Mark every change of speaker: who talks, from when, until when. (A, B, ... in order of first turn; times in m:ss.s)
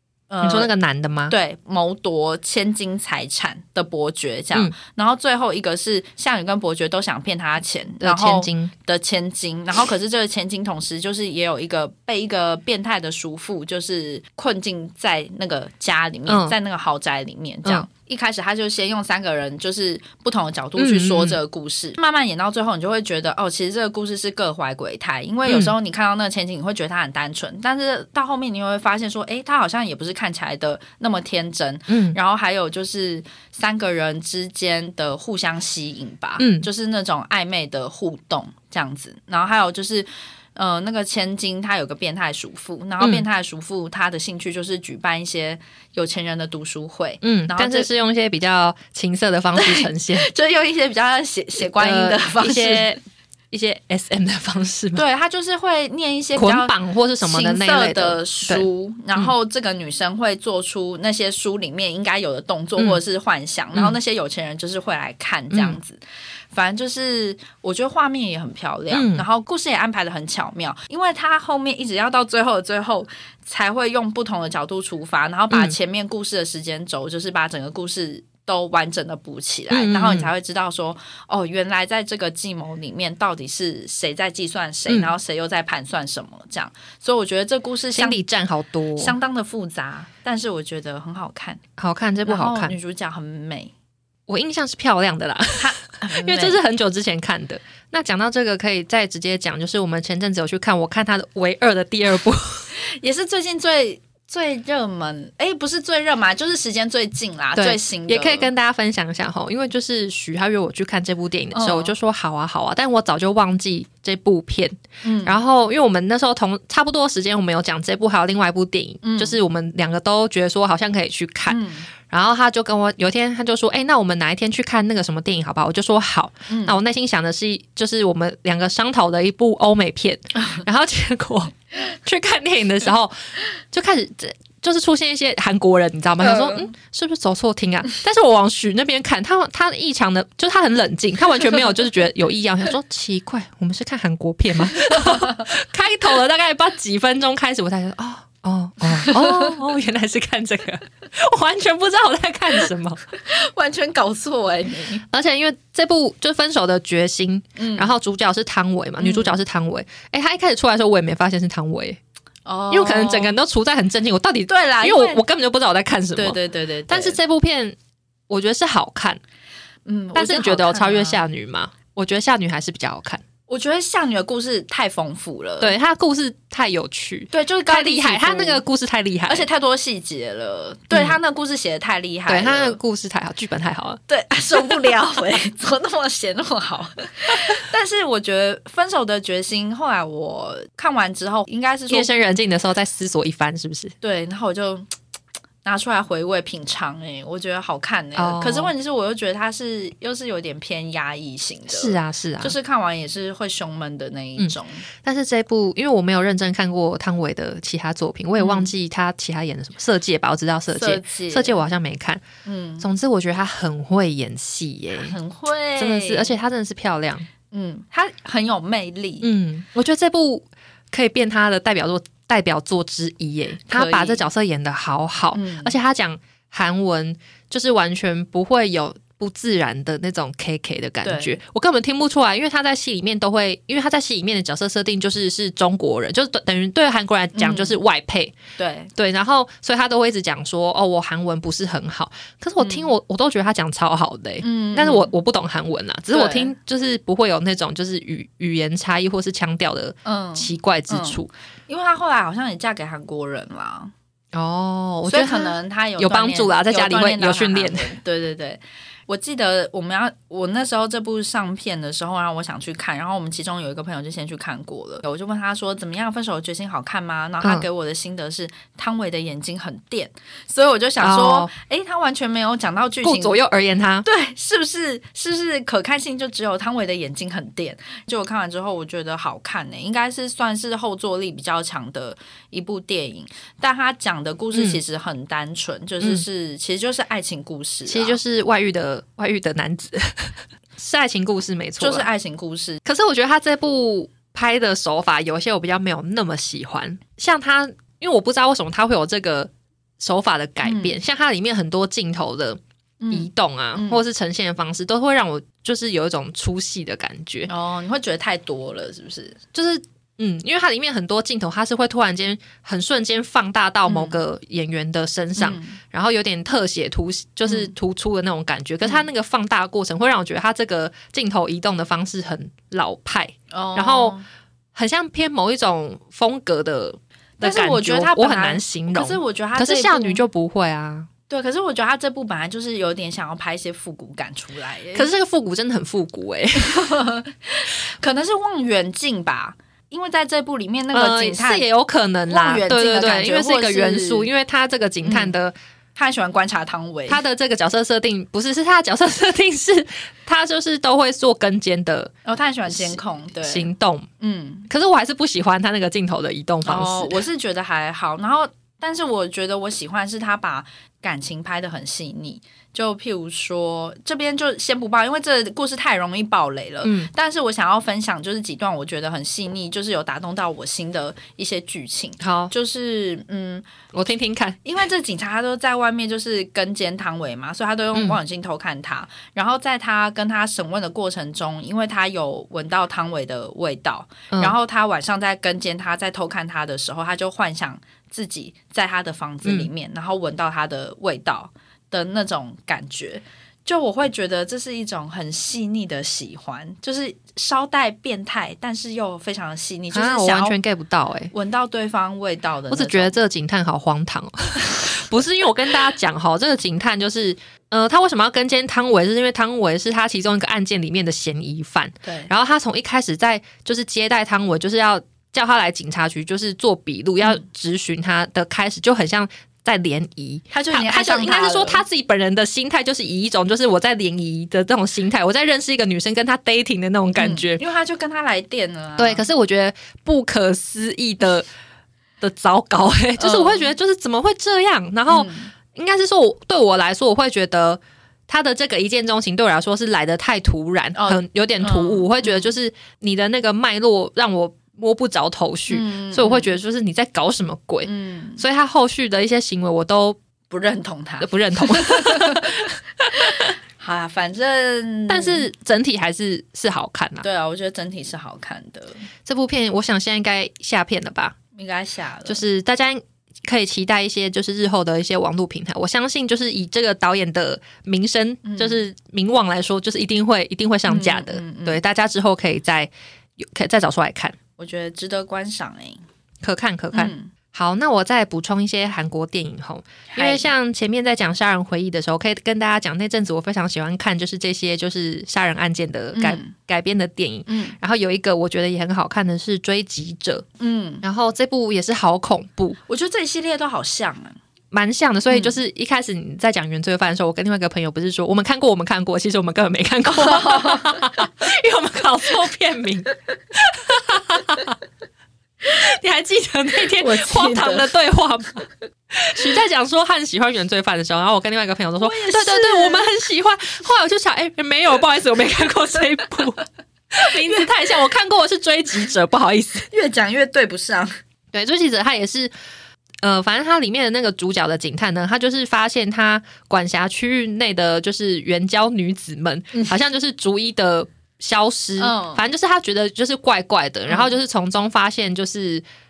0:00.3-0:00.7 A
0:00.4-0:01.4 B
0:01.3-0:47.9 A
0:08.0-0:08.7 B
0:16.3-0:16.6 B
0:20.8-0:21.4 B
0:25.5-0:25.7 B
0:31.9-0:32.2 B
0:36.4-0:36.7 B
0:43.0-0:43.2 B
0:47.2-0:50.3 B
0:49.6-0:52.9 A
0:51.6-0:53.0 B
0:53.5-0:55.0 B
0:55.0-1:06.0 A
0:56.4-0:59.3 B
1:05.5-1:05.8 B
1:06.5-1:28.2 A
1:08.9-1:09.2 B
1:19.7-1:20.3 B
1:24.9-1:25.1 B
1:27.9-1:29.2 B
1:29.0-1:31.6 A
1:31.8-1:32.8 B
1:32.3-1:33.7 A
1:34.3-1:42.7 B
1:35.6-1:36.6 A
1:42.8-1:48.5 A
1:47.6-2:13.2 B
1:51.5-1:51.9 A
1:55.0-1:55.4 A
1:59.0-1:59.4 A
2:01.5-2:01.9 A
2:06.5-2:06.8 A
2:13.7-2:33.0 B
2:16.2-2:16.7 A
2:24.8-2:25.4 A
2:28.9-2:29.6 A
2:33.2-2:35.0 A
2:35.1-2:42.0 B
2:37.6-2:37.9 A
2:39.0-2:39.4 A
2:42.5-2:43.4 A
2:42.7-2:47.8 B
2:44.5-2:45.2 A
2:46.2-2:47.2 A
2:48.3-2:49.2 B
2:49.9-2:51.2 A
2:50.2-2:53.2 B
2:53.5-2:55.7 A
2:55.6-2:59.5 B
2:57.3-2:58.6 A
2:59.3-3:02.8 A
3:00.9-3:01.2 B
3:02.3-3:04.0 B
3:04.1-3:12.1 A
3:11.9-3:13.9 B
3:14.0-3:14.9 A
3:15.6-3:24.8 A
3:18.2-3:18.7 B
3:21.7-3:22.6 B
3:24.4-3:32.2 B
3:28.4-3:28.7 A
3:30.7-3:31.6 A
3:32.4-3:32.9 A
3:32.8-3:35.2 B
3:35.0-3:36.4 A
3:35.8-3:37.3 B
3:37.5-3:39.2 A
3:39.2-3:58.4 B
3:43.7-3:44.2 A
3:45.3-3:45.8 A
3:51.0-3:51.4 A
3:57.4-3:57.8 A
3:58.6-3:58.9 A
3:59.0-4:11.3 B
4:02.6-4:02.9 A
4:04.4-4:05.1 A
4:06.1-4:06.5 A
4:10.0-4:13.9 A
4:14.3-4:17.9 B
4:15.1-4:33.4 A
4:31.0-4:31.5 B
4:33.0-4:34.1 B
4:34.0-4:48.2 A
4:44.5-4:44.8 B
4:47.9-4:52.1 B
4:51.8-4:52.8 A
4:52.8-5:02.6 B
5:00.6-5:01.0 A
5:03.0-5:04.0 A
5:03.1-5:07.5 B
5:07.5-5:09.4 A
5:09.5-5:24.2 B
5:13.9-5:14.2 A
5:15.4-5:15.8 A
5:17.5-5:17.7 A
5:23.5-5:24.2 A
5:24.8-5:31.1 B
5:27.4-5:30.2 A
5:31.3-5:35.1 A
5:34.9-5:37.0 B
5:36.6-5:41.7 A
5:40.9-5:45.6 B
5:42.3-5:44.3 A
5:45.0-5:45.3 A
5:46.0-5:47.2 A
5:47.1-5:52.1 B
5:52.2-5:53.7 A
5:52.7-5:54.1 B
5:54.2-5:54.7 A
5:54.7-5:57.2 B
5:56.6-6:13.7 A
6:06.8-6:07.1 B
6:12.2-6:12.5 B
6:13.9-6:14.6 B
6:14.6-6:40.6 A
6:17.9-6:18.2 B
6:24.3-6:24.6 B
6:29.4-6:29.7 B
6:39.9-6:41.3 B
6:41.3-6:43.2 A
6:42.7-7:07.6 B
6:52.0-6:52.3 A
7:00.5-7:01.8 A
7:07.2-7:09.2 A
7:09.0-7:11.5 B
7:12.2-7:30.2 B
7:13.2-7:13.7 A
7:15.1-7:15.5 A
7:21.0-7:22.5 A
7:25.7-7:26.5 A
7:27.8-7:28.4 A
7:30.5-7:35.5 A
7:31.2-7:33.5 B
7:35.1-7:37.3 B
7:37.2-7:39.1 A
7:39.3-7:41.4 B
7:41.6-7:42.4 A
7:42.3-7:54.4 B
7:48.4-7:48.8 A
7:50.9-7:51.8 A
7:54.6-7:56.0 A
7:56.4-8:10.5 B
7:56.9-7:57.3 A
8:00.1-8:00.5 A
8:06.1-8:06.5 A
8:07.5-8:07.8 A
8:10.6-8:11.0 A
8:11.0-8:12.8 B
8:12.9-8:14.4 A
8:14.7-8:24.8 B
8:15.3-8:15.6 A
8:20.1-8:21.1 A
8:25.8-8:39.9 B
8:26.8-8:27.9 A
8:32.0-8:33.1 A
8:39.9-8:41.1 A
8:41.5-8:42.5 B
8:43.2-8:55.8 B
8:52.0-8:52.4 A
8:54.1-8:54.3 A